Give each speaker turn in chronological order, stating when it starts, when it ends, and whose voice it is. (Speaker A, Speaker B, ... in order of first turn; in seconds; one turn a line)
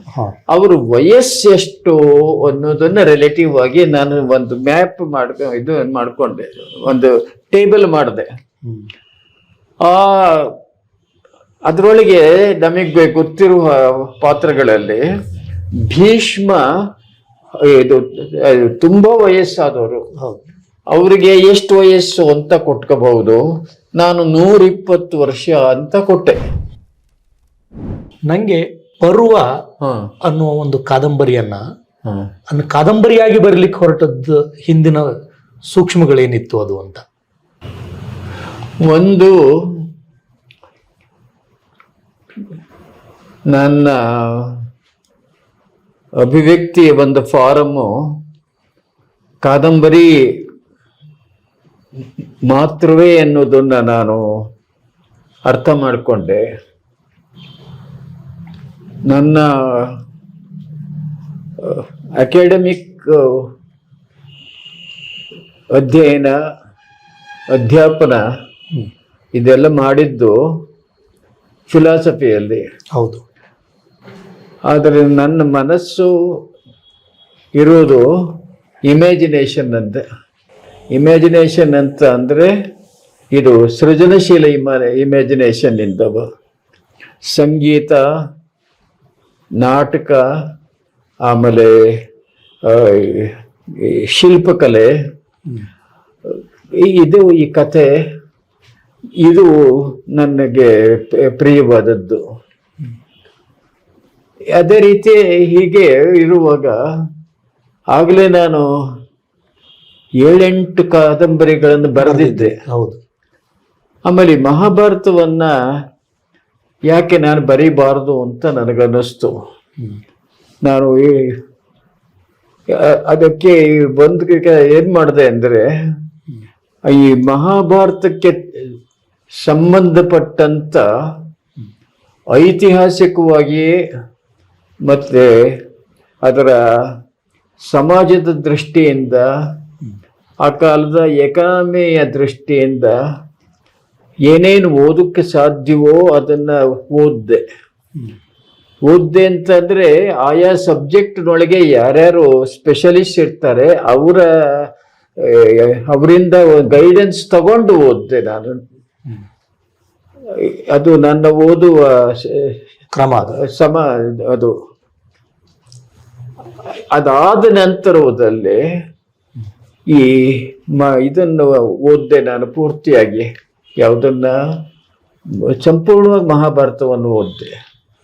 Speaker A: 0.5-8.3
Speaker A: 9.8-10.5
Speaker A: 11.7-15.0
Speaker A: 15.9-16.6
Speaker A: 17.7-20.0
Speaker A: 20.9-23.4
Speaker A: 24.0-26.4
Speaker B: 28.3-29.5
Speaker A: 29.8-30.1
Speaker B: 30.3-31.6
Speaker B: 32.5-35.1
Speaker B: 35.7-37.0
Speaker A: 38.8-39.4
Speaker A: 43.5-44.6
Speaker A: 46.2-47.9
Speaker A: 49.4-50.1
Speaker A: 52.5-54.2
Speaker A: 55.5-56.4
Speaker A: 59.1-60.0
Speaker A: 61.6-63.5
Speaker A: 65.7-66.3
Speaker A: 67.5-68.2
Speaker A: 69.3-70.3
Speaker A: 71.7-72.6
Speaker B: 73.0-73.2
Speaker A: 74.7-76.1
Speaker A: 77.6-78.0
Speaker A: 78.9-80.0
Speaker A: 80.9-82.5
Speaker A: 83.3-86.3
Speaker A: 87.3-88.0
Speaker A: 89.6-90.2
Speaker A: 91.3-91.9
Speaker A: 92.7-94.9
Speaker A: 96.3-97.9
Speaker A: 99.2-102.2
Speaker A: 104.6-106.8
Speaker A: 108.0-108.7
Speaker A: 110.2-112.5
Speaker B: 112.0-113.0
Speaker A: 114.1-115.5
Speaker A: 116.9-119.4
Speaker A: 120.7-121.4
Speaker A: 122.7-125.7
Speaker A: 126.9-128.4
Speaker A: 129.4-130.8
Speaker A: 132.3-133.7
Speaker A: 134.9-135.6
Speaker A: 136.2-136.6
Speaker A: 137.7-139.3
Speaker A: 140.4-143.0
Speaker A: 144.3-147.4
Speaker A: 148.9-158.6
Speaker A: 160.3-162.6
Speaker B: 162.9-163.3
Speaker A: 163.4-164.6
Speaker A: 166.9-168.6
Speaker A: 169.9-173.3
Speaker A: 173.8-174.4
Speaker A: 175.5-177.5